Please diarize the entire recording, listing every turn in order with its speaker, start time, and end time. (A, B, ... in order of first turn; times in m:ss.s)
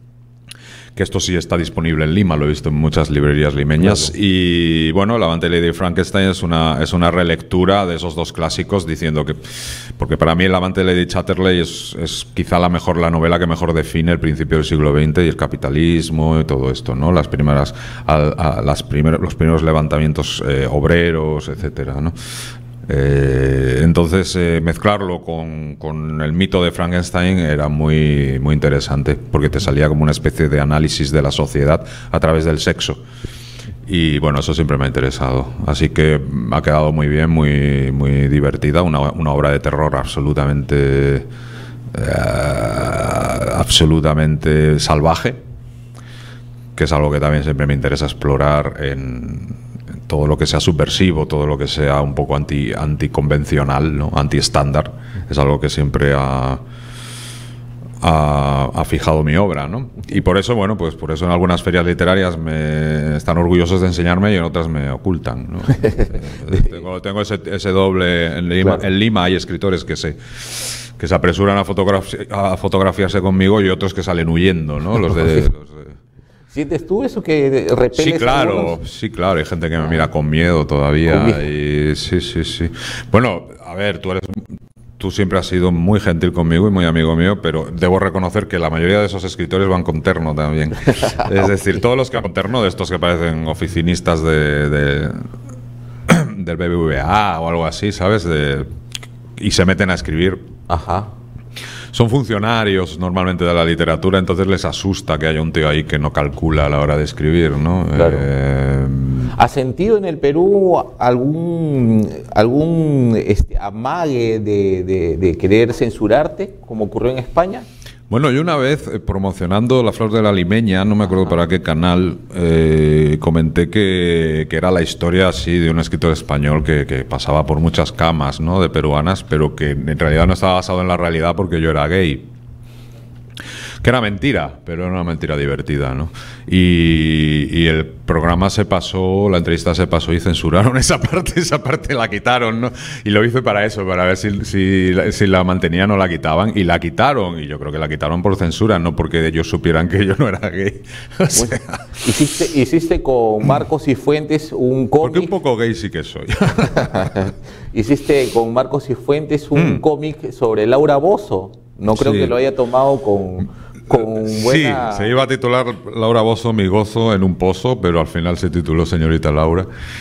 0:00.9-0:22.1 A
0:22.8-0:33.0 A
0:33.8-0:41.3 A
0:41.9-0:45.4 A
0:46.8-0:56.6 A
0:58.0-1:16.0 A
1:16.5-1:18.8 B
1:17.9-1:35.2 A
1:21.1-1:21.4 B
1:36.1-1:38.7 A
1:39.4-1:40.5 A
1:40.7-1:41.1 B
1:41.9-1:49.3 A
1:48.0-1:48.2 B
1:49.3-1:57.6 B
1:58.1-2:12.3 A
2:13.8-2:31.8 A
2:31.3-2:35.3 B
2:35.0-2:37.2 A
2:36.8-2:45.1 B
2:39.5-2:39.8 A
2:41.9-2:42.3 A
2:44.2-2:49.7 A